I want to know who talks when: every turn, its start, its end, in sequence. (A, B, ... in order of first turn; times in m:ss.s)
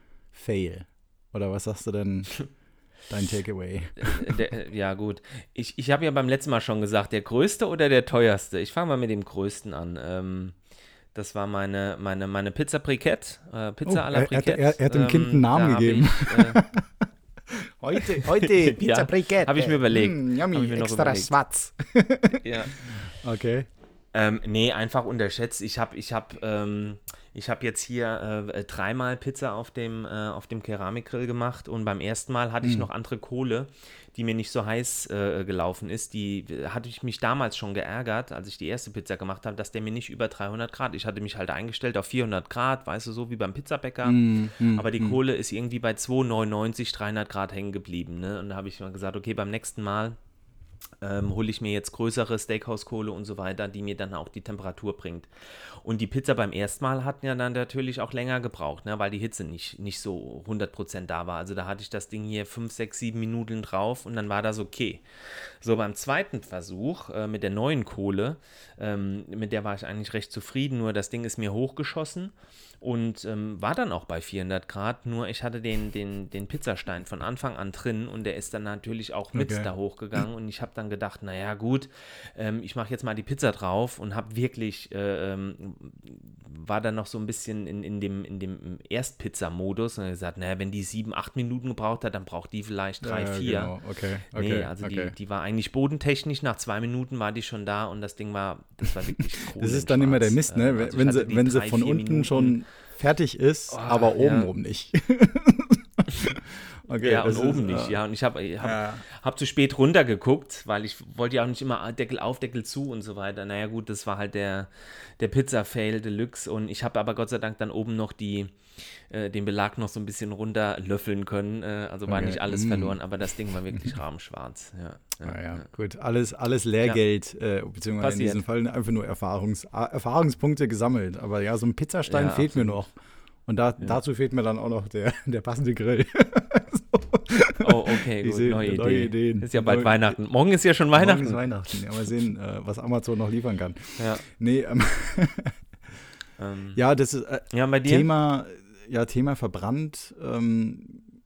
0:00.3-0:02.4 A
0:03.1-0:04.4 A
0:04.0-0:10.6 B
0:11.1-0:16.6 B
0:13.8-0:16.9 A
0:17.5-0:23.7 A
0:18.0-0:21.3 B
0:22.4-0:22.7 B
0:24.1-0:50.2 B
0:32.6-0:32.9 A
0:44.0-0:45.2 A
0:51.0-1:33.7 B
1:19.3-1:19.7 A
1:33.0-1:35.1 A
1:34.3-1:42.6 B
1:39.6-1:48.0 A
1:43.7-1:44.5 B
1:47.0-2:05.6 B
1:48.6-1:49.0 A
2:02.1-2:03.0 A
2:05.2-2:12.9 A
2:08.0-2:08.4 B
2:12.1-2:12.8 B
2:13.5-2:20.2 A
2:17.6-2:21.4 B
2:20.9-2:25.5 A
2:24.0-2:24.2 B
2:26.4-2:26.8 B
2:26.8-2:31.1 A
2:27.5-2:28.1 B